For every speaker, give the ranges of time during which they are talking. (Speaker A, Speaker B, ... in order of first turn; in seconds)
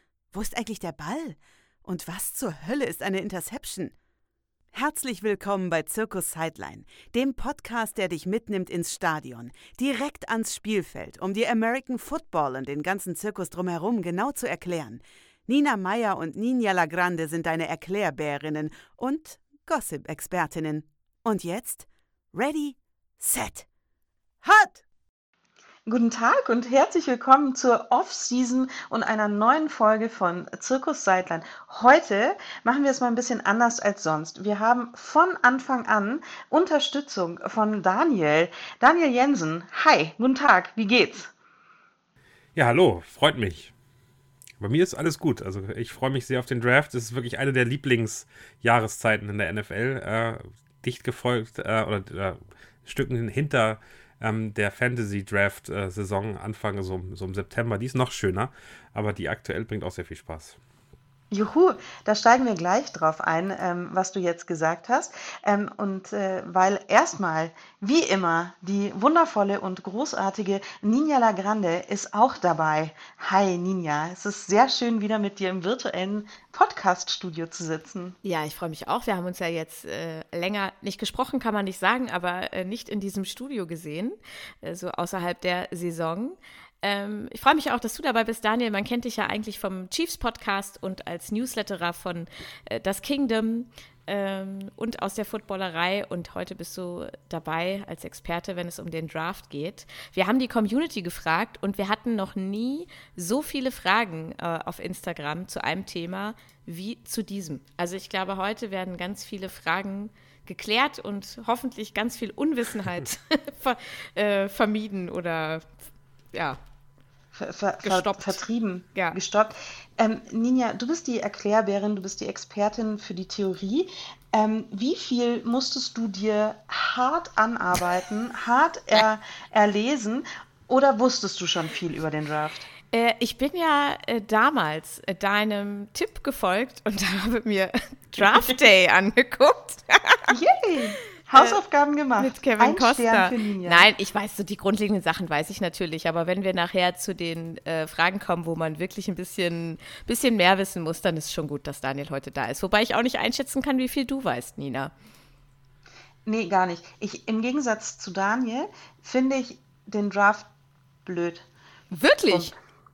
Speaker A: 0.3-3.9, 4.7-23.7, 24.4-24.8
Speaker B: 25.9-41.3, 61.3-78.2, 117.3-132.7, 138.2-138.6, 140.3-143.9, 156.3-160.5, 161.1-161.4, 162.3-162.6
Speaker C: 42.5-43.7, 44.6-60.6
Speaker D: 78.2-115.7, 116.3-116.6, 117.8-118.4, 132.9-140.3, 142.2-154.9, 161.9-162.5